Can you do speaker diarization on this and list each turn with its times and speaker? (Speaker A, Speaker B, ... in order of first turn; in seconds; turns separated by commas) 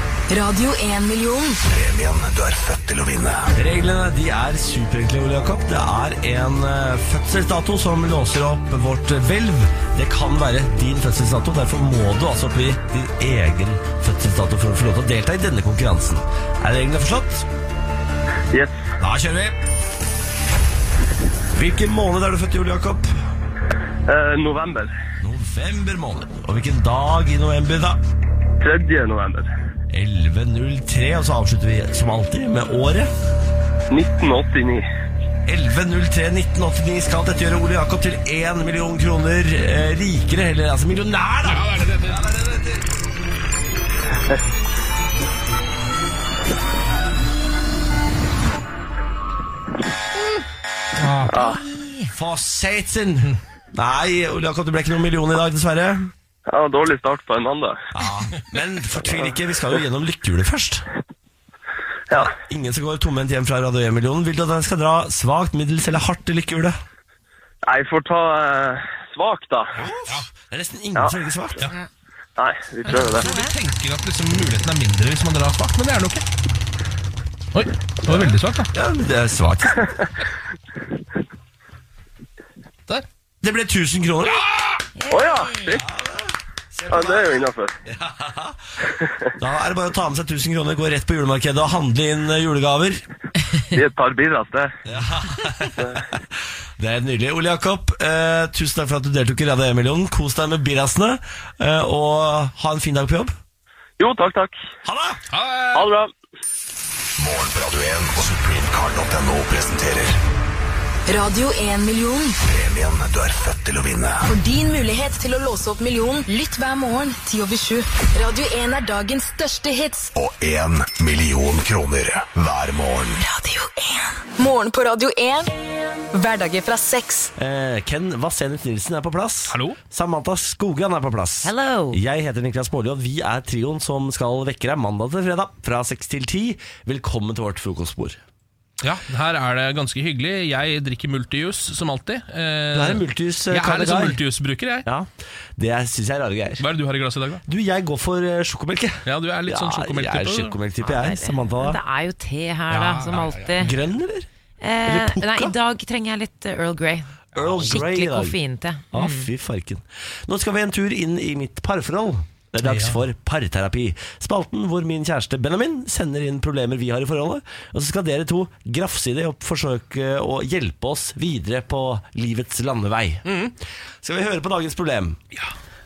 Speaker A: 0.3-1.6, Speaker B: 1.6-3.5, Speaker C: 3.5-17.5, Speaker D: 18.5-18.8, Speaker C: 19.0-19.6, Speaker C: 21.5-23.1, Speaker D: 24.1-24.9, Speaker C: 25.2-28.0, Speaker D: 28.6-29.5, Speaker C: 29.9-33.1, Speaker D: 33.9-34.9, Speaker C: 35.5-42.7, Speaker E: 41.5-42.4, Speaker E: 51.0-51.4, Speaker D: 51.3-51.6, Speaker F: 51.3-52.1, Speaker C: 52.1-56.1, Speaker D: 56.5-57.8, Speaker C: 57.9-60.9, Speaker C: 62.1-66.8, Speaker D: 67.6-69.7, Speaker C: 69.8-71.6, Speaker D: 72.4-73.3, Speaker F: 72.9-73.5, Speaker E: 72.9-76.2, Speaker E: 77.5-78.7, Speaker C: 78.1-80.0, Speaker C: 83.4-84.4, Speaker F: 85.0-85.8, Speaker D: 85.1-85.8, Speaker C: 85.8-88.6, Speaker D: 86.9-87.7, Speaker C: 89.4-93.0, Speaker D: 93.7-94.8, Speaker C: 94.9-96.2, Speaker D: 95.8-96.0, Speaker C: 96.8-103.3, Speaker D: 104.0-104.6, Speaker C: 104.8-105.2, Speaker E: 105.3-105.9, Speaker D: 105.7-106.1, Speaker B: 107.2-110.2, Speaker A: 111.1-112.4, Speaker B: 112.5-114.2, Speaker A: 114.2-120.1, Speaker B: 120.2-123.2, Speaker A: 123.2-125.5, Speaker A: 126.1-127.3, Speaker C: 127.4-138.2, Speaker E: 129.5-129.8, Speaker F: 131.4-132.0, Speaker E: 138.8-144.9, Speaker C: 142.7-144.2, Speaker C: 144.8-146.6, Speaker E: 146.6-147.4, Speaker C: 147.5-151.8, Speaker E: 149.1-150.6, Speaker F: 150.8-153.7, Speaker E: 152.7-153.8, Speaker C: 153.6-154.3, Speaker F: 154.6-159.3, Speaker C: 154.8-155.6, Speaker C: 157.3-158.4, Speaker C: 158.9-173.3, Speaker E: 162.6-163.0, Speaker E: 173.3-173.5, Speaker C: 174.0-175.2